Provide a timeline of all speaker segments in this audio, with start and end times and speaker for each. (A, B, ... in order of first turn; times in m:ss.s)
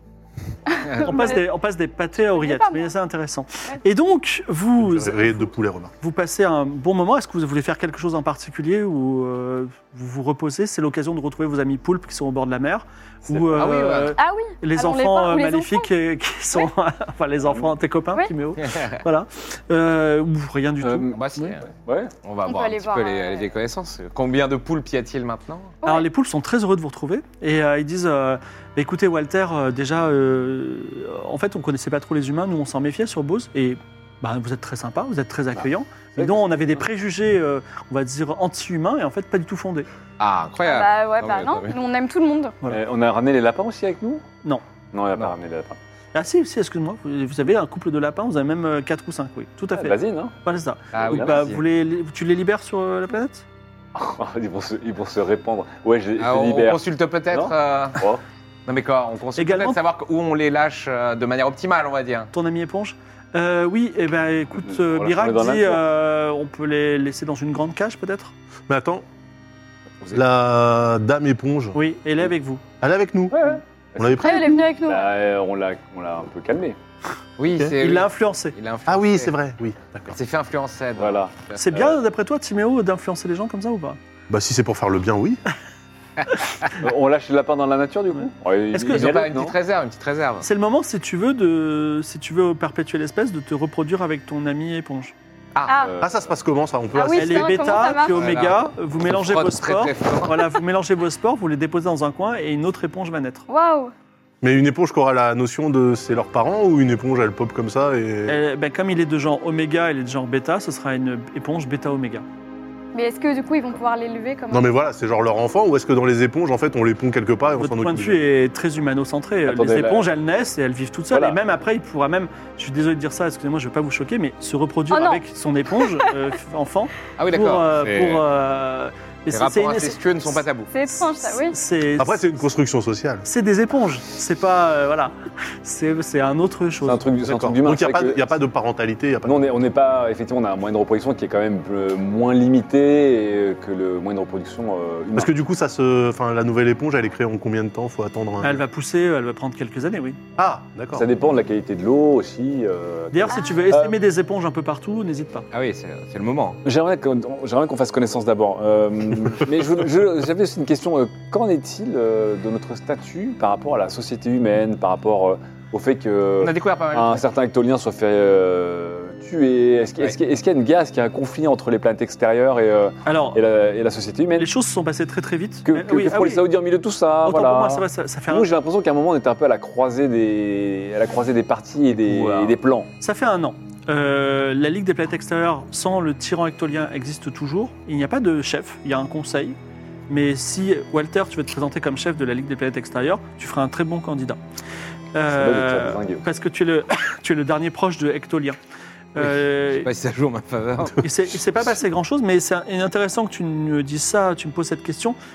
0:00.7-0:01.4 A
0:00.8-0:01.1 B
0:01.0-0:21.5 C
0:02.3-0:02.9 A
0:04.8-0:05.9 D
0:13.3-0:13.7 E
0:13.5-0:14.1 B
0:14.2-0:15.9 A
0:18.6-0:19.0 B
0:20.8-0:22.1 E
0:21.1-0:21.7 B
0:22.2-0:25.8 B
0:22.4-0:23.5 A
0:25.8-0:39.9 C
0:36.1-0:36.6 E
0:40.2-0:41.8 B
0:40.6-0:42.6 A
0:42.7-0:44.2 E
0:44.9-0:45.8 E
0:46.1-0:53.4 C
0:49.7-0:50.3 E
0:50.9-0:51.6 B
0:51.0-0:51.5 E
0:53.9-0:58.2 E
0:56.2-0:58.0 B
0:58.6-1:02.3 B
0:59.4-0:59.8 C
1:02.3-1:08.3 C
1:04.6-1:05.8 E
1:08.7-1:09.0 D
1:10.1-1:11.8 D
1:11.7-1:12.6 C
1:12.8-1:13.4 D
1:13.3-1:16.8 E
1:14.0-1:14.7 D
1:14.2-1:15.1 A
1:17.4-1:19.3 B
1:17.8-1:18.6 C
1:18.9-1:20.2 D
1:20.1-1:21.8 B
1:21.0-1:22.0 E
1:21.6-1:24.0 C
1:24.3-1:25.4 D
1:26.8-1:29.6 E
1:28.7-1:29.2 C
1:28.9-1:30.4 B
1:30.4-1:35.1 C
1:35.6-1:35.9 A
1:35.8-1:36.3 E
1:36.0-1:37.7 D
1:36.9-1:38.2 A
1:37.1-1:43.4 C
1:38.0-1:40.5 B
1:43.5-1:43.9 A
1:44.4-1:48.4 D
1:48.3-1:52.2 C
1:52.9-1:54.8 A
1:54.5-1:58.2 D
1:57.6-2:10.4 C
1:59.4-2:00.1 E
2:01.1-2:01.4 E
2:04.9-2:05.2 A
2:05.8-2:06.1 A
2:07.2-2:08.2 B
2:09.3-2:10.7 B
2:10.7-2:11.6 A
2:10.9-2:12.2 C
2:12.0-2:13.2 D
2:13.2-2:17.0 C
2:16.8-2:18.4 E
2:17.2-2:19.4 D
2:19.2-2:25.3 E
2:25.2-2:28.6 D
2:28.4-2:30.2 C
2:30.4-2:31.0 D
2:30.9-2:33.9 E
2:33.1-2:35.4 C
2:33.3-2:33.6 A
2:35.5-2:36.6 B
2:36.6-2:54.5 E
2:46.4-2:47.3 B
2:53.0-2:53.4 C
2:54.4-2:56.4 C
2:55.6-3:02.9 E
2:57.2-2:58.5 C
3:02.1-3:09.6 C
3:10.1-3:14.4 C
3:15.1-3:18.6 C
3:15.2-3:16.2 E
3:19.1-3:19.9 C
3:19.2-3:21.0 B
3:21.0-3:25.2 C